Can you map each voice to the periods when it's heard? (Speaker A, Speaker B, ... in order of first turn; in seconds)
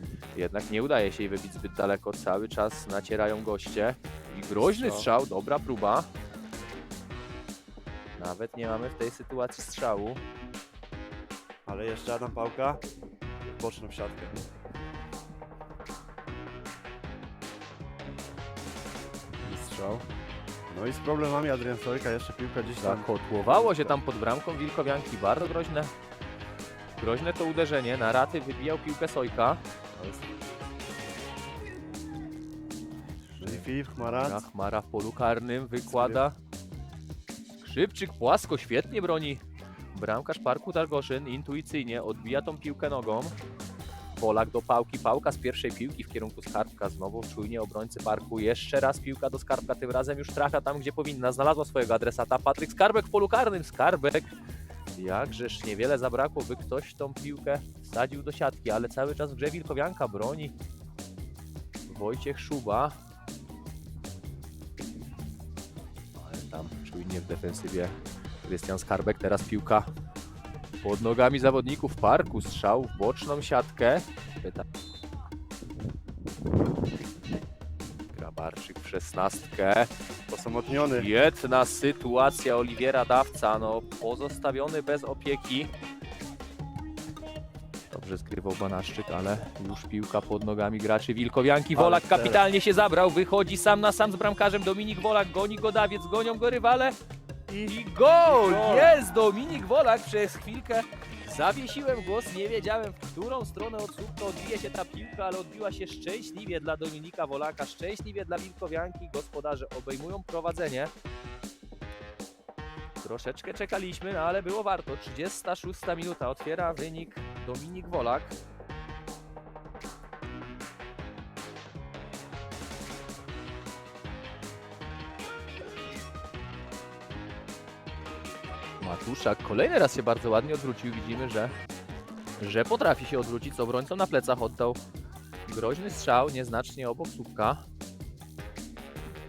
Speaker A: 0.3-6.1, 8.2-10.2, 22.8-25.9, 26.9-29.6, 33.4-36.4, 37.6-39.4, 39.9-43.4, 44.1-54.3, 55.0-60.5, 61.9-63.0, 66.2-69.9, 70.8-74.7, 78.1-79.9, 80.8-85.7, 87.9-96.9, 97.7-110.9, 113.0-118.4, 128.8-131.6, 132.4-134.8, 135.5-137.6
Speaker B: 4.6-5.1, 11.7-12.8, 13.5-14.3, 19.5-20.0, 20.7-23.9, 29.9-30.3, 33.4-34.4, 35.9-36.2, 80.3-81.1, 91.8-92.4, 97.5-99.0